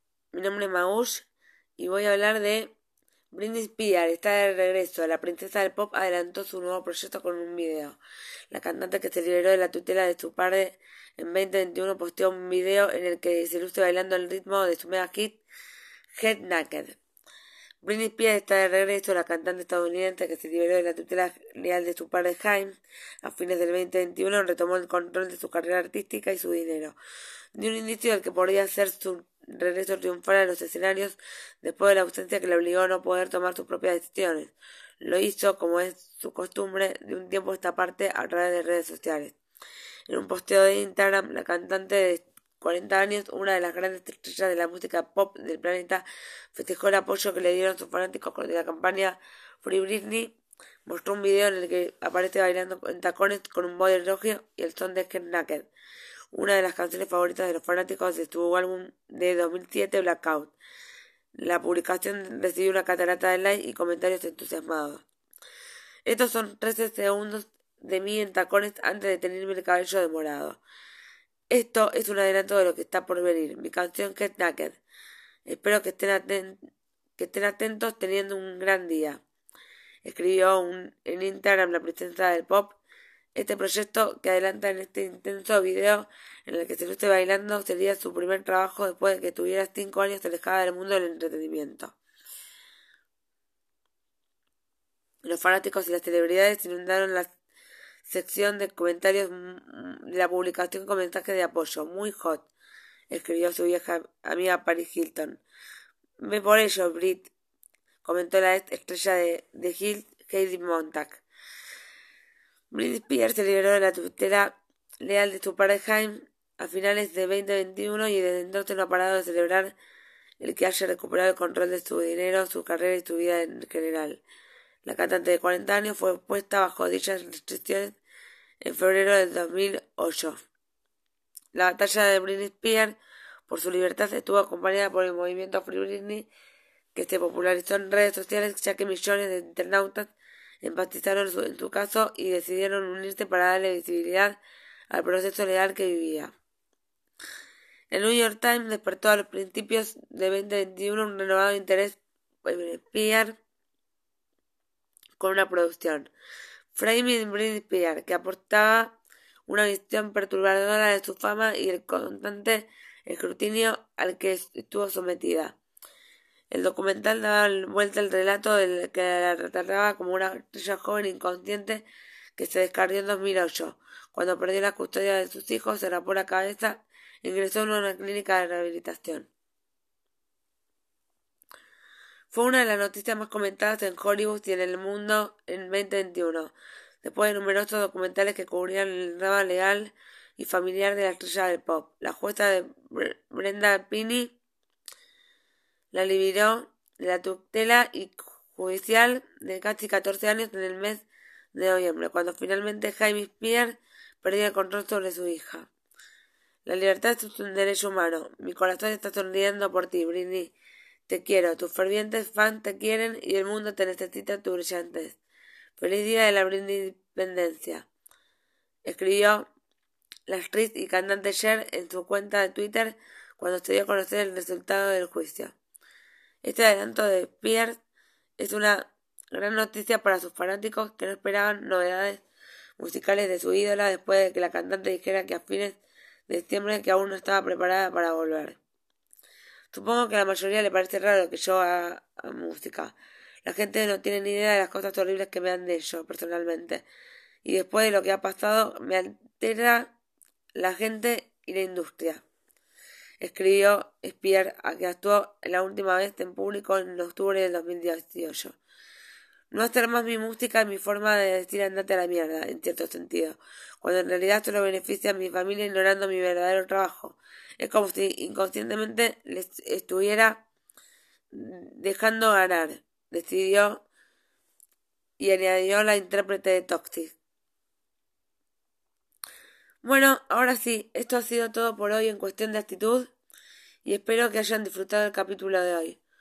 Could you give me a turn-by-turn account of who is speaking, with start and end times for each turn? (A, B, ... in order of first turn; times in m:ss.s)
0:00.3-0:01.3 A
0:01.8-0:02.7 A
0:03.3-0:08.0 A
0:08.5-0:15.4 A
0:16.2-0:17.0 A
0:17.8-0:27.0 A
0:27.6-0:39.3 A
0:40.1-0:46.0 A
0:46.6-0:50.3 A
0:50.9-0:55.7 A
0:56.3-1:00.5 A
1:01.4-1:05.0 A
1:06.0-1:10.6 A
1:11.5-1:14.8 A
1:15.5-1:16.6 A
1:17.2-1:19.2 A
1:20.0-1:22.8 A
1:23.4-1:31.9 A
1:35.2-1:37.3 A
1:38.1-1:42.5 A
1:43.1-1:45.4 A
1:46.2-1:47.3 A
1:48.0-1:51.2 A
1:52.7-1:59.7 A
2:00.4-2:04.2 A
2:04.8-2:08.0 A
2:08.6-2:10.4 A
2:11.5-2:13.0 A
2:13.5-2:16.2 A
2:17.0-2:20.1 A
2:20.6-2:24.4 A
2:24.9-2:26.3 A
2:27.9-2:33.3 A
2:35.2-2:36.1 A
2:36.8-2:38.9 A
2:39.5-2:45.6 A
2:46.5-2:51.8 A
2:52.4-2:59.3 A
3:02.3-3:14.3 A
3:15.9-3:25.7 A
3:26.7-3:30.5 A
3:31.1-3:35.2 A
3:35.8-3:37.8 A
3:38.9-3:39.5 A
3:40.3-3:45.5 A
3:46.4-3:47.8 A
3:48.4-3:52.2 A
3:52.8-3:58.6 A
3:59.7-4:06.8 A
4:07.4-4:09.9 A
4:10.6-4:12.2 A
4:13.2-4:18.6 A
4:19.5-4:30.4 A
4:31.3-4:33.8 A
4:35.2-4:37.2 A
4:39.8-4:43.1 A
4:43.8-4:46.0 A